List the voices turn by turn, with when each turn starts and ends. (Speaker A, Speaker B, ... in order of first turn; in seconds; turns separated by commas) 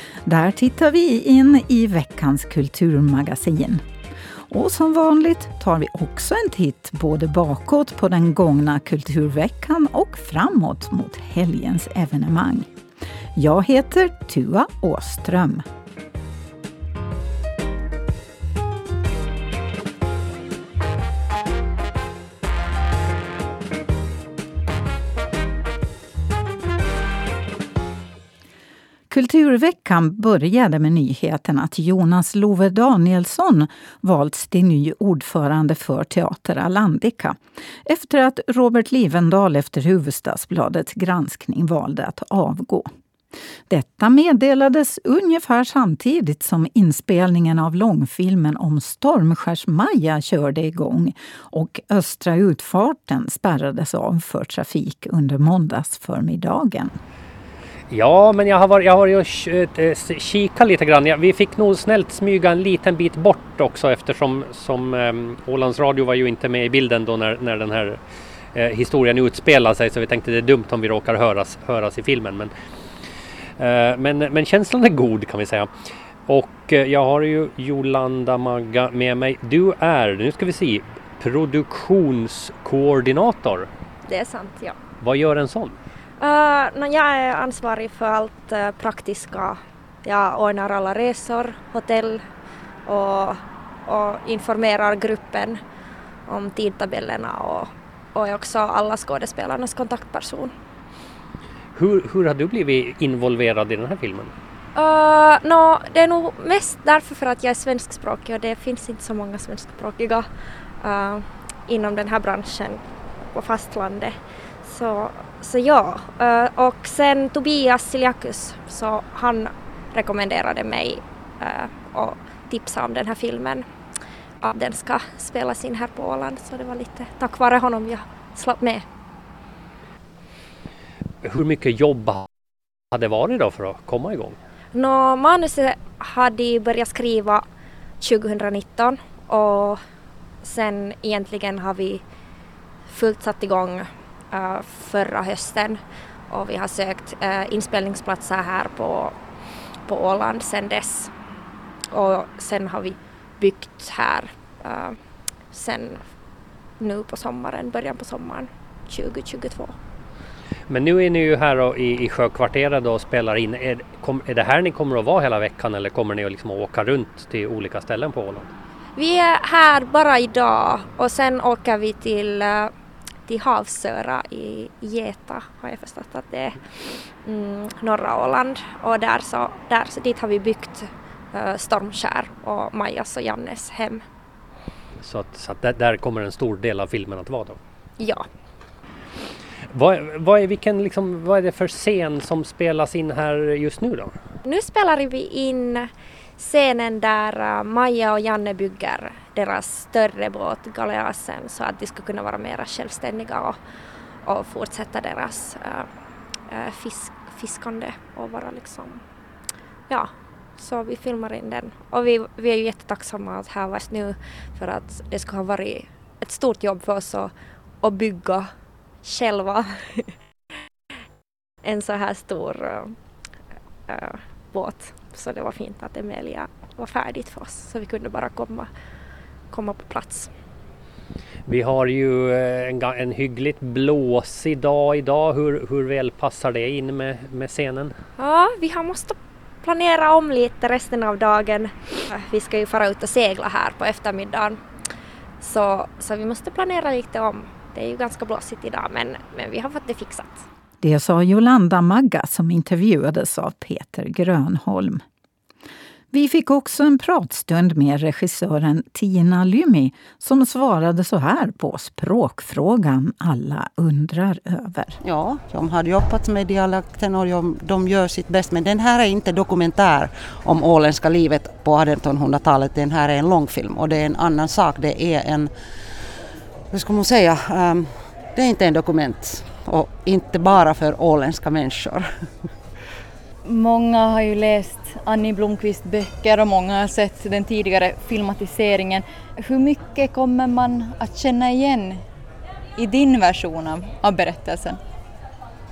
Speaker A: 0.2-3.8, Speaker A: 4.5-12.7, Speaker A: 13.3-15.6, Speaker A: 29.1-42.9, Speaker A: 43.7-57.0, Speaker B: 57.9-68.0, Speaker B: 68.5-72.5, Speaker B: 73.6-75.7, Speaker B: 76.2-83.7, Speaker C: 84.1-84.8, Speaker B: 85.0-85.8, Speaker C: 86.2-92.2, Speaker C: 92.8-95.6, Speaker C: 96.3-100.5, Speaker B: 101.7-104.3, Speaker C: 104.7-123.6, Speaker C: 124.4-128.8, Speaker B: 131.2-132.3, Speaker B: 132.9-134.4, Speaker C: 134.7-137.4, Speaker C: 138.0-139.8, Speaker C: 140.4-142.0, Speaker C: 142.9-149.2, Speaker C: 149.8-151.1, Speaker C: 151.9-155.0, Speaker C: 155.5-156.0, Speaker C: 156.8-159.8, Speaker B: 160.7-168.5, Speaker C: 168.9-172.7, Speaker C: 173.3-184.0, Speaker B: 185.0-187.6, Speaker C: 188.0-188.2, Speaker B: 189.7-194.1, Speaker C: 194.4-203.6, Speaker C: 204.2-205.9, Speaker C: 206.5-209.0, Speaker C: 209.9-218.5, Speaker C: 219.0-220.1, Speaker C: 221.6-222.9, Speaker C: 223.9-228.7, Speaker C: 229.5-230.3, Speaker B: 231.4-237.9, Speaker C: 238.2-244.6, Speaker C: 245.4-250.4, Speaker A: 250.8-255.0, Speaker A: 256.1-265.0, Speaker D: 265.0-275.5, Speaker D: 276.7-282.1, Speaker E: 283.4-292.0, Speaker E: 292.8-294.8